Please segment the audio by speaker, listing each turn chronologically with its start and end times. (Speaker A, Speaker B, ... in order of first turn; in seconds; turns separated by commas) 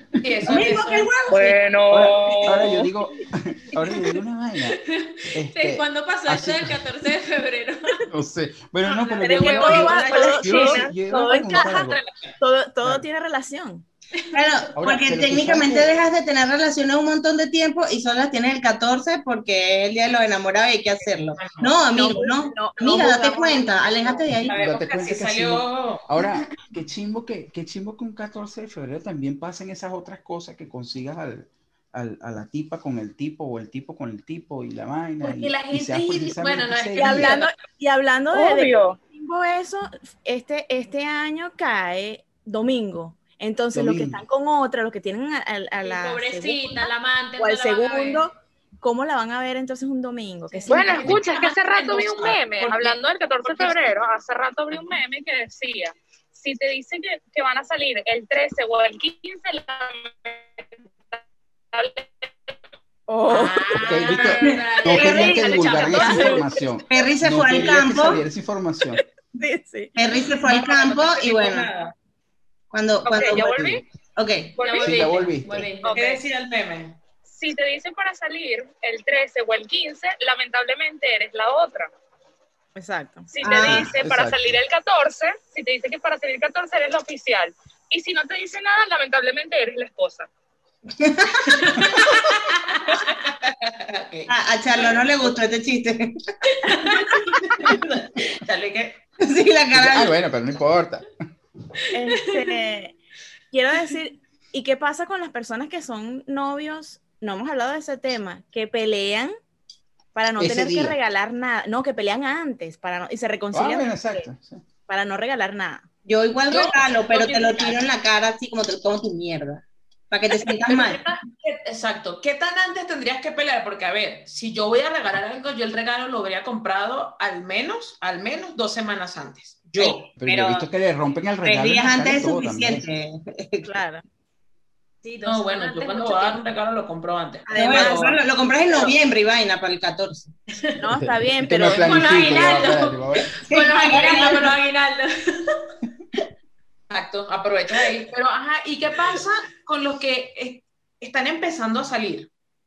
Speaker A: 0.2-1.1, Speaker B: 0.5-1.6, Speaker C: 1.3-2.9, Speaker D: 1.9-4.8, Speaker E: 4.7-8.1, Speaker D: 5.3-6.8, Speaker D: 8.1-12.0, Speaker F: 9.2-13.8, Speaker A: 9.2-10.6, Speaker E: 9.4-9.9, Speaker C: 10.5-10.9, Speaker A: 11.7-12.3, Speaker E: 14.2-14.5, Speaker B: 14.3-24.6, Speaker D: 14.8-15.9, Speaker A: 21.4-21.7, Speaker F: 21.9-24.3, Speaker A: 24.5-26.2, Speaker D: 24.5-37.4, Speaker A: 35.2-37.5, Speaker F: 37.0-51.1, Speaker C: 38.3-39.0, Speaker D: 43.7-44.2, Speaker E: 45.8-48.2, Speaker E: 50.5-51.2, Speaker A: 50.7-53.9, Speaker C: 50.7-61.2, Speaker C: 61.7-62.5, Speaker F: 63.1-63.8, Speaker A: 63.3-64.3, Speaker E: 63.6-66.6, Speaker D: 63.7-69.0, Speaker B: 65.0-65.3, Speaker C: 65.4-66.2, Speaker F: 65.8-66.4, Speaker B: 66.9-68.2, Speaker F: 69.3-69.9, Speaker B: 70.0-71.7, Speaker A: 70.4-71.9, Speaker B: 72.7-73.5, Speaker C: 73.0-73.8, Speaker D: 73.3-73.8, Speaker B: 74.2-74.5, Speaker C: 74.6-74.9, Speaker E: 74.6-76.1, Speaker A: 74.7-75.0, Speaker D: 74.8-75.7, Speaker C: 75.8-76.2, Speaker A: 75.9-77.0, Speaker C: 77.3-81.9, Speaker F: 82.7-83.3, Speaker C: 83.3-90.3, Speaker B: 83.4-83.9, Speaker D: 83.6-84.4, Speaker B: 91.0-91.7, Speaker E: 91.9-93.0, Speaker A: 92.9-95.0, Speaker B: 94.3-96.2, Speaker E: 96.6-97.2, Speaker A: 97.4-99.0, Speaker B: 99.2-100.1, Speaker D: 99.7-101.1, Speaker F: 101.9-102.9, Speaker E: 102.1-102.4, Speaker F: 103.5-109.3, Speaker F: 110.1-114.3, Speaker D: 110.4-111.0, Speaker D: 113.5-114.6, Speaker F: 114.9-115.8, Speaker B: 116.0-121.0, Speaker A: 116.5-117.8, Speaker A: 120.6-130.1, Speaker B: 129.8-130.7, Speaker D: 130.2-132.8, Speaker B: 131.4-133.7, Speaker F: 133.6-134.0, Speaker E: 135.0-136.4, Speaker A: 135.2-138.2, Speaker F: 137.5-138.2, Speaker B: 137.5-140.3, Speaker E: 140.5-140.8, Speaker F: 140.8-142.0, Speaker D: 141.0-143.3, Speaker E: 141.7-145.6, Speaker B: 143.5-144.5, Speaker A: 146.9-152.3